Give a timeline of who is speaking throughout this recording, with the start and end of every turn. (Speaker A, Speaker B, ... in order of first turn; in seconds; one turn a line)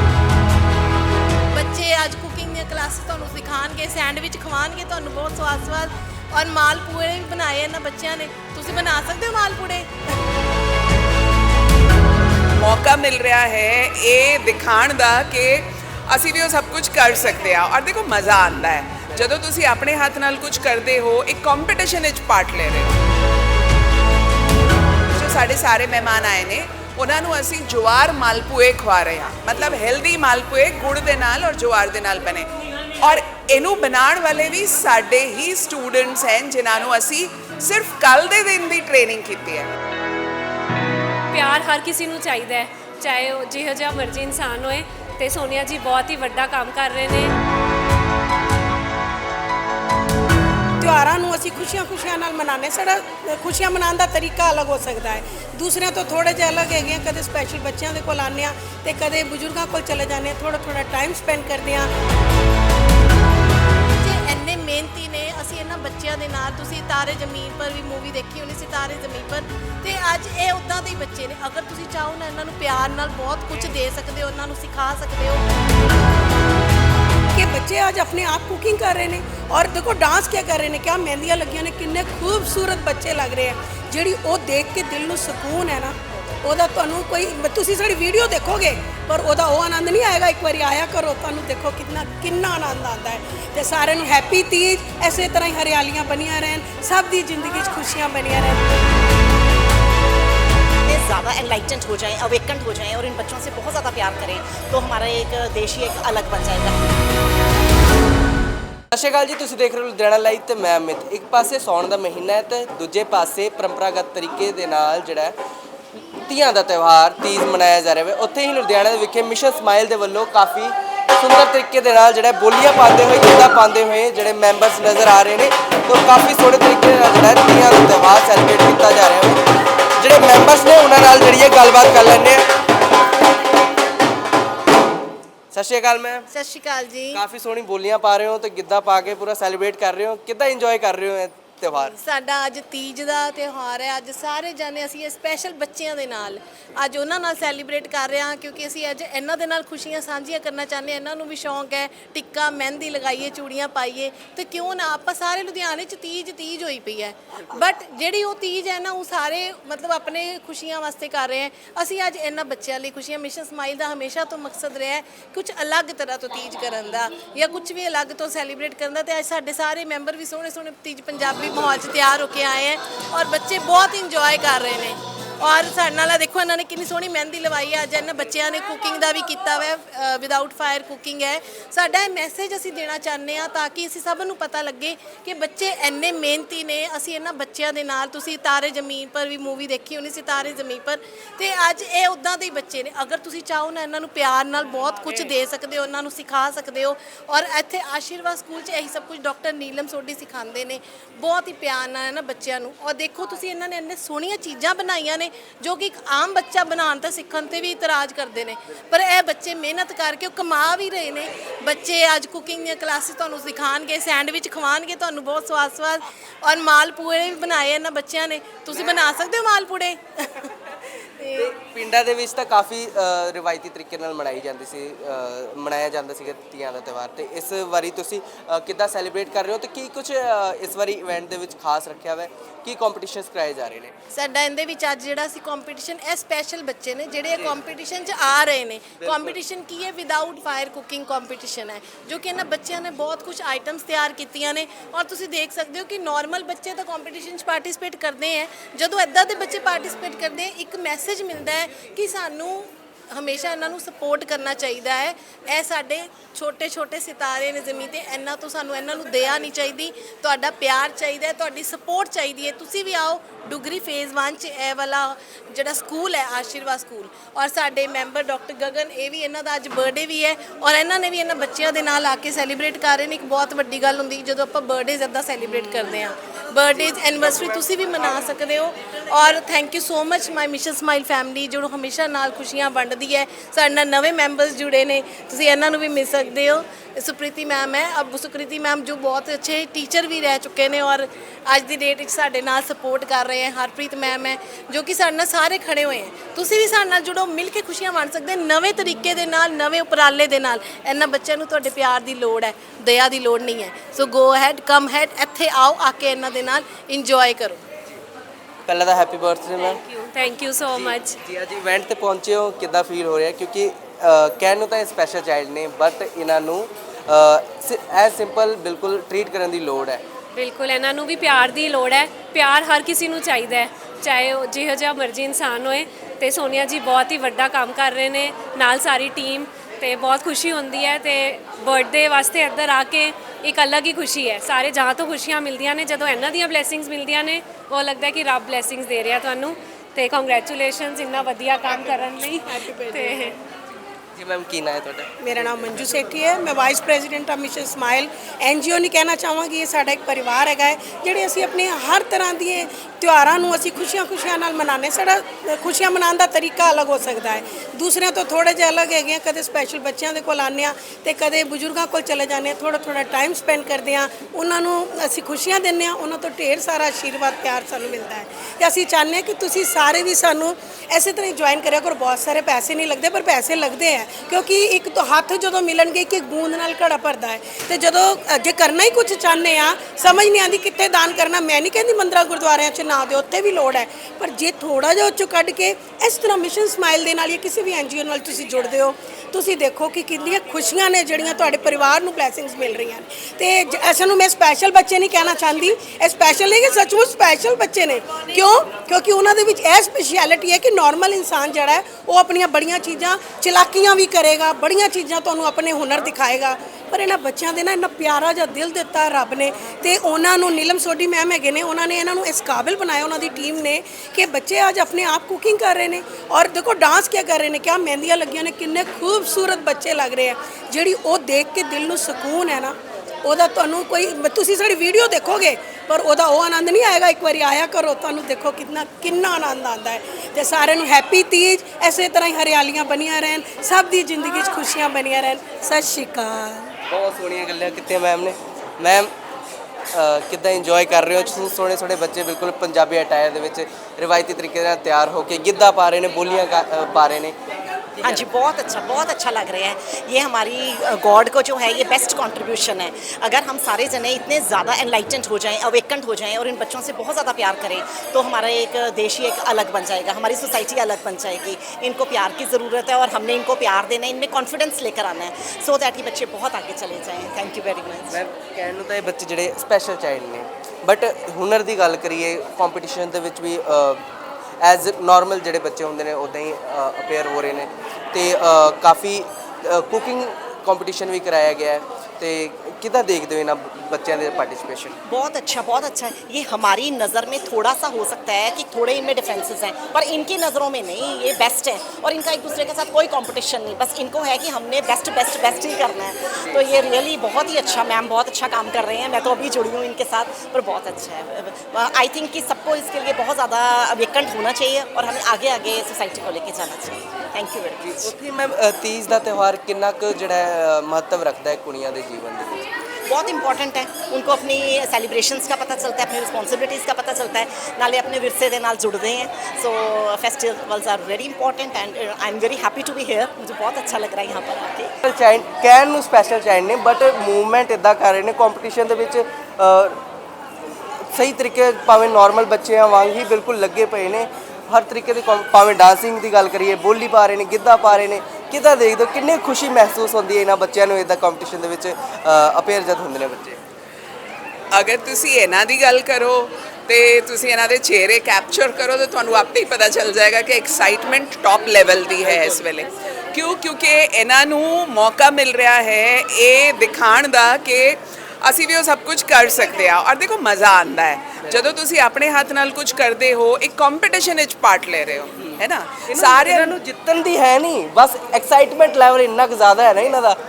Speaker A: 1.5-9.9
Speaker B: 12.6-22.9
Speaker B: 25.1-32.5
Speaker B: 33.0-39.7
Speaker C: 41.3-47.3
Speaker D: 50.8-61.9
Speaker A: 64.0-75.4
Speaker D: 77.3-98.6
Speaker E: 100.8-107.0
Speaker F: 108.9-115.3
Speaker F: 116.3-129.4
Speaker F: 130.0-132.5
Speaker F: 135.5-136.3
Speaker A: 136.3-137.2
Speaker F: 137.1-141.9
Speaker A: 141.7-220.5
Speaker A: 221.2-221.5
Speaker F: 221.3-233.9
Speaker A: 234.1-307.6
Speaker F: 239.0-239.4
Speaker F: 308.7-309.8
Speaker C: 309.6-311.2
Speaker F: 310.7-320.0
Speaker C: 320.3-343.4
Speaker D: 342.4-343.3
Speaker F: 344.1-345.1
Speaker D: 345.2-436.7
Speaker F: 436.9-439.1
Speaker F: 439.9-447.4
Speaker E: 448.0-468.2
Speaker F: 468.1-474.0
Speaker F: 474.6-485.0
Speaker E: 485.1-508.1
Speaker F: 507.8-512.6
Speaker E: 513.1-524.9
Speaker F: 525.0-530.0
Speaker F: 531.1-543.6
Speaker B: 544.7-566.7
Speaker F: 565.5-570.4